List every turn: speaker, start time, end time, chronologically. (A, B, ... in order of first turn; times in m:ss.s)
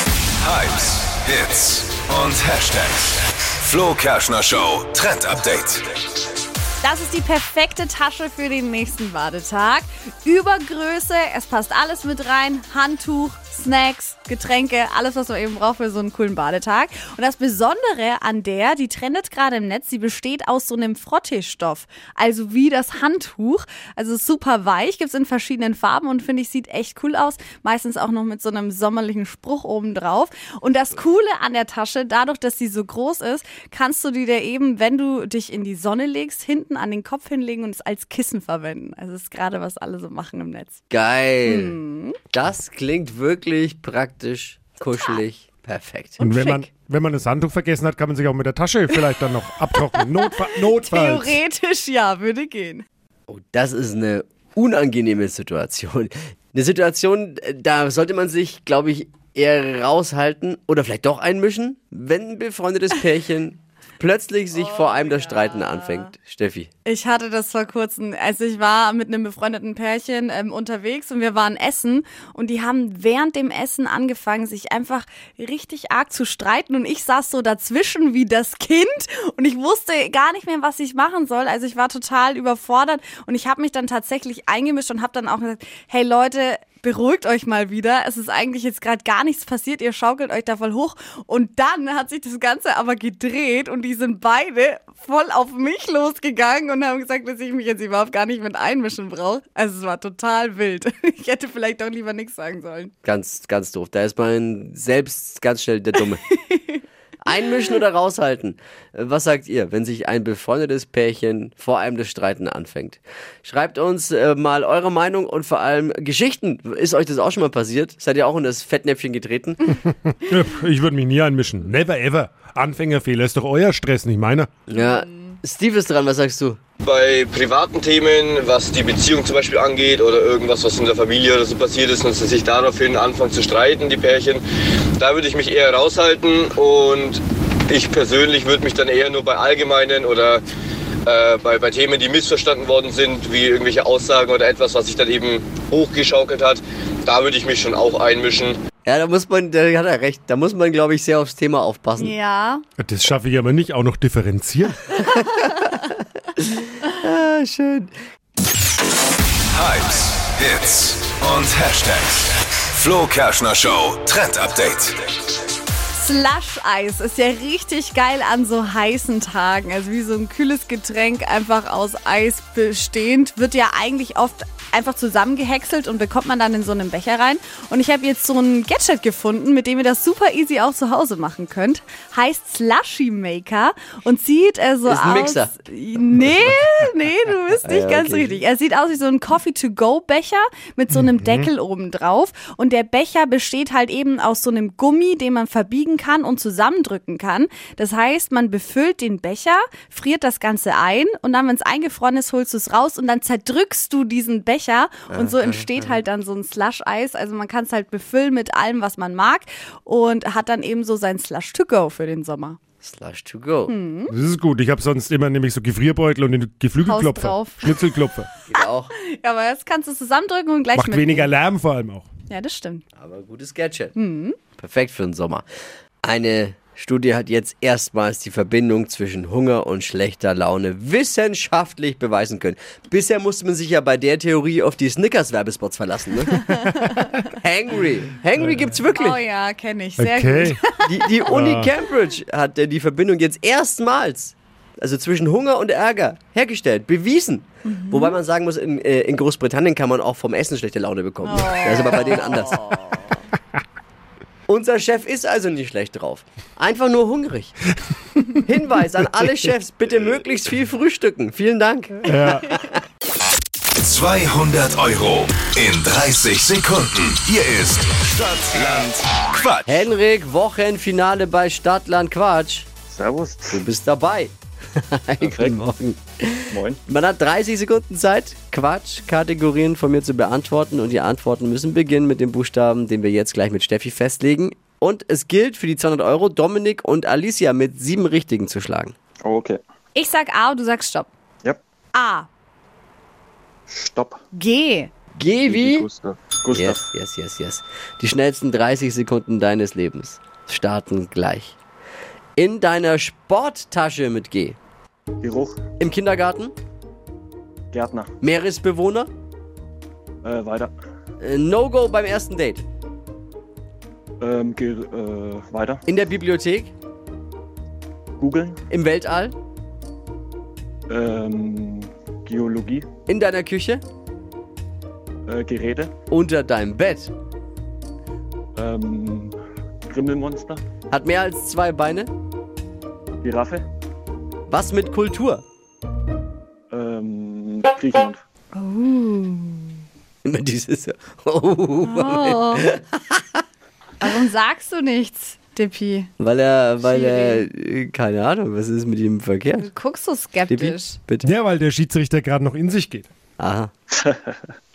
0:00.4-0:05.9 A
0:06.8-0:40.8 B
0:40.9-0:41.8 C
0:41.4-0:42.2 B
0:42.3-0:46.2 C
0:46.2-0:51.4 D
0:46.2-0:46.7 B
0:49.7-0:52.8 B
0:53.3-1:06.7 C
1:04.6-1:06.1 B
1:06.8-1:42.9 B
1:43.0-1:46.2 C
1:46.5-1:46.8 B
1:47.2-1:59.6 C
2:00.2-2:04.5 D
2:04.7-2:06.6 C
2:06.8-2:14.4 E
2:15.0-2:20.4 E
2:21.0-2:28.6 E
2:28.8-2:32.1 C
2:32.0-2:32.6 B
2:32.8-2:34.8 D
2:35.1-2:35.3 C
2:36.9-2:37.9 C
2:39.5-2:45.0 A
2:45.9-3:32.6 B
3:04.8-3:05.5 C
3:07.6-3:08.4 C
3:10.9-3:11.5 D
3:25.1-3:26.0 C
3:32.8-3:33.7 C
3:33.7-3:34.1 B
3:34.1-3:38.3 D
3:36.8-3:37.8 B
3:38.5-3:38.9 C
3:38.5-3:41.3 B
3:40.8-3:42.1 D
3:42.3-3:42.8 B
3:43.0-3:43.9 C
3:43.9-3:44.4 B
3:44.6-3:45.4 C
3:46.0-3:56.5 C
3:56.5-3:57.1 B
3:57.3-3:59.2 C
3:59.0-4:00.9 B
4:00.0-4:00.6 D
4:00.8-4:12.6 C
4:01.3-4:01.7 D
4:07.6-4:08.1 B
4:11.2-4:13.2 B
4:14.5-4:17.5 C
4:18.4-4:22.8 C
4:22.1-4:22.4 D
4:23.8-4:29.9 A
4:29.6-4:32.7 C
4:32.9-4:33.6 F
4:33.5-4:48.9 C
4:35.2-4:35.6 F
4:36.5-4:36.8 F
4:49.2-4:49.6 F
4:49.9-4:51.1 B
4:51.9-4:52.3 B
4:53.7-4:54.2 F
4:54.3-4:54.9 B
4:55.2-4:55.8 C
4:55.5-4:56.8 F
4:56.5-5:01.6 C
5:02.4-5:04.6 C
5:05.2-5:05.6 F
5:05.8-5:06.5 C
5:07.7-5:08.1 F
5:08.2-5:09.1 C
5:10.2-5:10.7 F
5:11.2-5:12.6 C
5:14.2-5:15.8 F
5:15.8-5:16.7 C
5:18.2-5:18.6 F
5:18.7-5:19.3 C
5:20.9-5:22.8 F
5:23.1-5:23.8 C
5:25.3-5:25.9 F
5:26.1-5:27.1 C
5:28.6-5:29.3 F
5:29.9-5:30.6 F
5:30.9-5:32.1 C
5:33.2-5:33.6 F
5:34.5-5:35.4 C
5:36.7-5:38.2 F
5:38.5-5:39.7 B
5:40.2-5:43.4 C
5:41.8-5:42.6 B
5:44.0-5:46.1 B
5:46.2-5:49.7 C
5:46.8-5:47.4 B
5:49.6-5:51.0 B
5:50.5-5:51.3 C
5:51.2-5:53.1 D
5:53.4-5:53.7 C